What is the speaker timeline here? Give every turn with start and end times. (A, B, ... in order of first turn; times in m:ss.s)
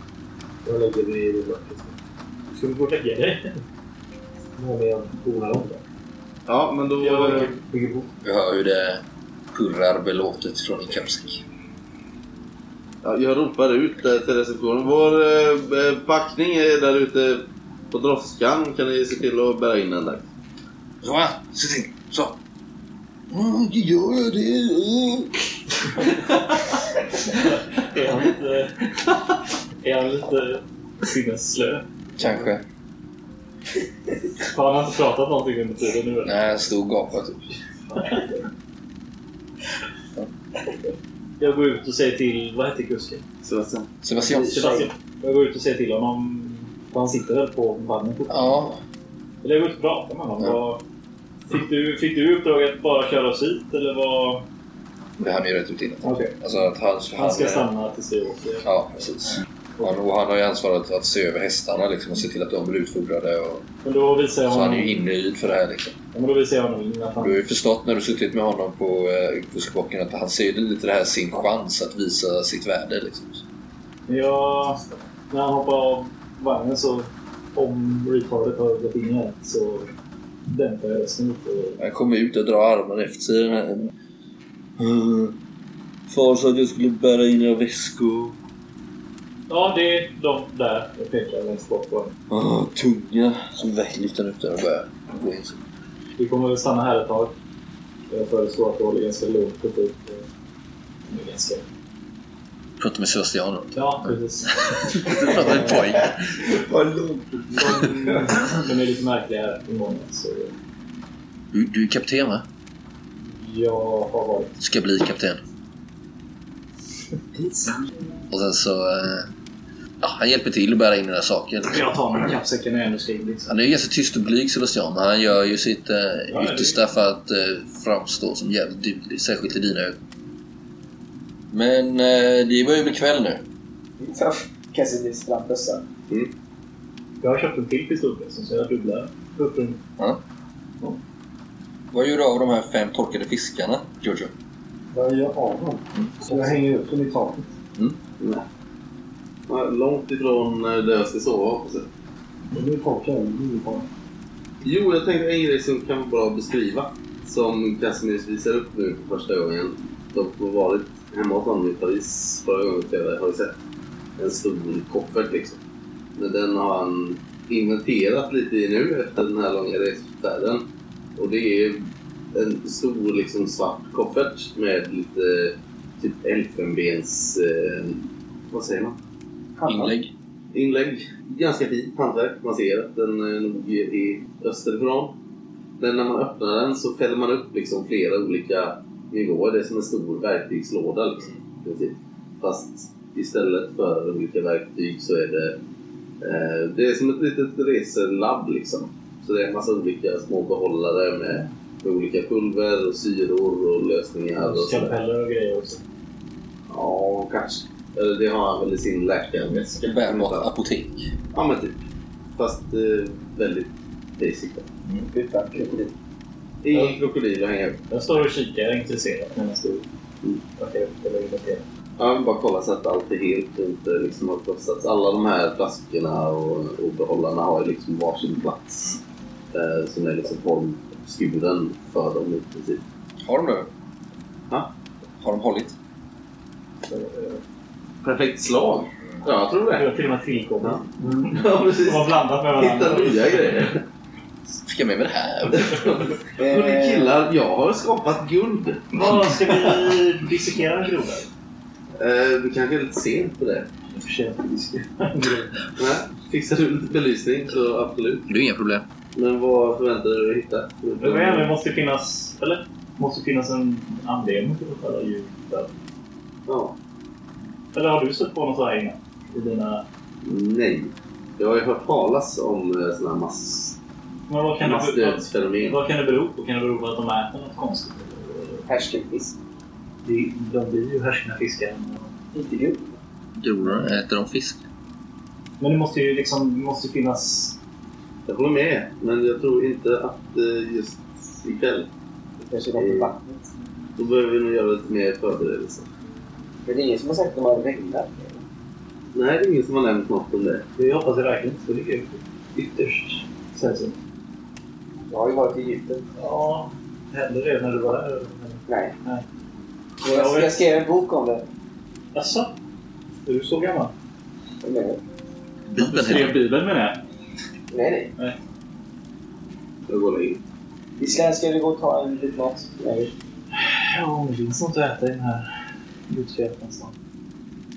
0:00.6-0:02.0 A
0:02.5-0:03.5 B
0:04.6-0:05.8 A
0:06.5-0:07.5 C
0:07.0-0:08.0 B
0:08.2-0:11.4 D
0:13.0-0:20.2 C
0:21.0-0:22.4 D
0:23.3-0:25.3 D
0:27.2-0:28.8 B
0:29.8-0:31.8 B
0:32.2-0:32.6 D
0:34.4-0:36.4 B
0:36.2-0:37.4 D
0:37.9-0:38.4 B
0:41.4-0:43.2 B
0:43.4-0:43.9 C
0:44.0-0:44.8 D
0:44.2-0:48.7 B
0:48.3-0:48.8 D
0:49.4-0:50.8 B
0:51.5-0:54.4 B
0:55.2-0:57.7 D
0:56.0-0:56.3 B
0:57.1-0:58.6 B
0:58.6-1:03.6 D
1:03.8-1:05.0 B
1:04.5-1:06.0 D
1:06.1-1:07.4 B
1:07.2-1:13.4 D
1:14.1-1:19.9 B
1:20.5-1:21.8 B
1:21.8-1:23.9 D
1:24.8-1:25.4 D
1:26.1-1:28.4 D
1:29.5-1:32.2 B
1:32.3-1:35.6 D
1:36.2-1:37.3 B
1:38.1-1:40.3 B
1:41.1-1:41.7 B
1:42.8-1:46.1 D
1:43.7-1:45.8 B
1:46.7-1:48.3 A
1:47.6-1:50.5 B
1:51.5-1:52.4 D
1:53.2-1:54.6 B
1:54.6-1:55.4 D
1:57.4-1:57.7 E
1:58.3-1:59.3 D
2:00.0-2:01.9 D
2:01.7-2:03.5 B
2:03.5-2:10.0 D
2:06.3-2:06.8 B
2:11.5-2:13.4 D
2:14.0-2:15.8 E
2:17.2-2:19.8 B
2:21.9-2:24.3 D
2:24.9-2:27.5 A
2:28.2-2:28.4 C
2:29.5-2:31.9 C
2:32.5-2:33.9 A
2:34.6-2:43.5 C
2:44.2-2:45.6 C
2:46.2-2:50.6 C
2:51.2-2:59.0 C
2:59.6-2:59.9 E
2:59.6-3:00.1 D
3:00.5-3:05.1 C
3:05.8-3:15.6 C
3:16.2-3:24.9 C
3:24.4-3:25.8 B
3:26.7-3:30.5 C
3:29.8-3:31.1 D
3:31.3-3:31.8 C
3:32.4-3:34.7 C
3:34.9-3:35.9 E
3:36.6-3:37.8 C
3:36.7-3:37.0 B
3:37.9-3:39.8 B
3:40.6-3:41.6 B
3:42.0-3:49.0 C
3:49.5-3:52.8 C
3:53.2-3:53.7 D
3:55.2-3:55.7 D
3:56.8-3:57.4 B
3:58.0-3:59.9 C
3:59.7-4:03.7 B
4:00.6-4:03.8 C
4:04.6-4:05.9 D
4:05.5-4:08.9 C
4:06.4-4:07.1 E
4:08.9-4:11.3 B
4:12.0-4:13.7 C
4:13.9-4:15.5 B
4:15.8-4:18.3 C
4:18.3-4:18.8 D
4:19.1-4:21.5 C
4:21.0-4:25.7 B
4:26.5-4:26.8 C
4:27.7-4:29.8 B
4:30.2-4:33.8 C
4:34.3-4:38.6 B
4:34.6-4:35.8 C
4:38.7-4:39.4 E
4:40.0-4:42.1 B
4:42.3-4:43.0 E
4:43.4-4:44.6 D
4:45.6-4:47.6 B
4:48.3-4:51.9 C
4:52.4-4:53.5 E
4:52.8-4:53.1 C
4:54.0-4:55.9 C
4:56.6-4:58.4 E
4:59.1-5:00.6 C
5:00.8-5:04.0 B
5:05.1-5:06.0 E
5:06.2-5:09.2 B
5:08.7-5:09.0 E
5:10.0-5:11.4 E
5:10.0-5:10.7 B
5:12.1-5:12.5 B
5:13.2-5:13.9 B
5:14.6-5:15.0 E
5:15.7-5:16.4 D
5:15.8-5:17.0 B
5:17.7-5:18.1 E
5:19.9-5:20.4 C
5:21.0-5:23.1 E
5:23.5-5:25.5 B
5:26.1-5:26.9 B